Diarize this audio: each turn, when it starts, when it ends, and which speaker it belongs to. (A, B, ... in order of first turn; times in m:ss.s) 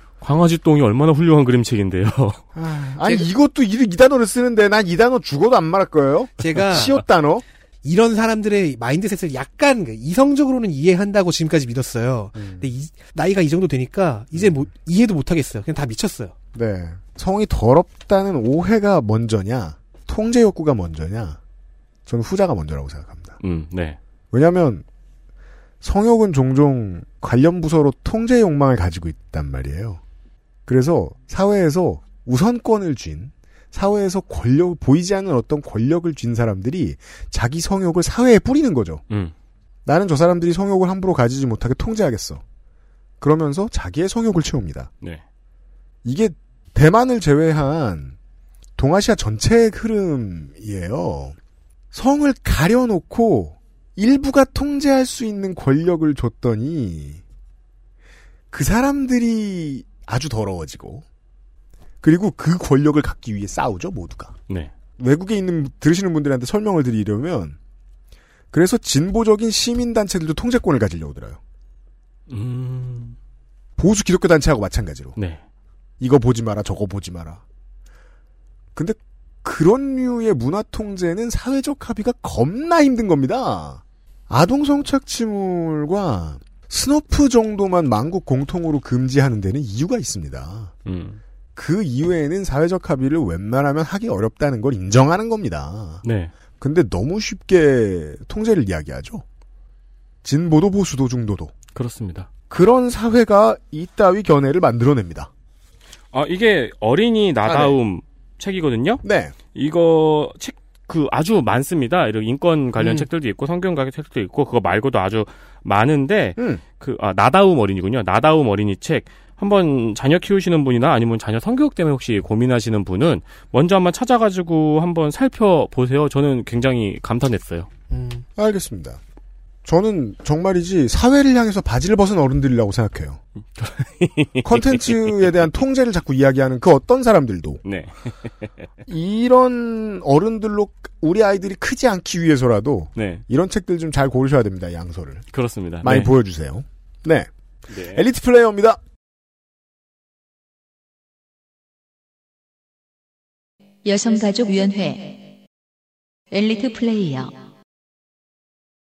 0:00.2-0:02.4 A
0:02.6-0:07.4 B
0:06.4-0:07.0 C
0:07.8-0:16.3 C
0:12.4-0:12.7 B
0:16.5-0:21.4 B
0:22.1-0:23.4 B
0:23.4-0:24.0 A
0:24.3-0:24.8 B
0:25.8-0:30.0 B
0:30.7-0:39.0 B
0:39.9-0:42.4 B
0:43.2-0:44.9 B
0:46.0-0:48.1 B
0:48.8-0:51.4 B
0:51.9-0:57.2 B
0:58.5-1:01.1 B
1:02.0-1:04.4 B
1:05.0-1:07.6 B
1:08.5-1:11.4 B
1:12.3-1:13.2 A
1:13.8-1:15.2 B
1:16.0-1:17.4 B
1:18.8-1:30.7 B
1:30.9-1:31.2 A
1:31.6-1:36.0 B
1:36.0-1:36.3 A
1:36.6-1:39.2 B
1:40.2-1:41.5 B
1:41.8-1:42.3 A
1:42.5-1:45.3 B
1:46.1-2:07.7 A
1:47.5-1:47.8 B
1:49.0-1:49.4 B
1:52.8-1:53.1 B
1:56.4-1:56.6 B
2:07.9-2:08.2 C
2:08.4-2:09.0 B
2:09.6-2:13.2 B
2:13.6-2:15.2 A
2:14.4-2:17.6 B
2:17.6-2:18.5 A
2:18.9-2:25.3 B
2:23.0-2:23.2 A
2:25.3-2:26.1 A
2:25.8-2:28.8 B
2:27.7-2:28.0 A
2:33.8-2:35.2 D
2:36.3-2:37.4 D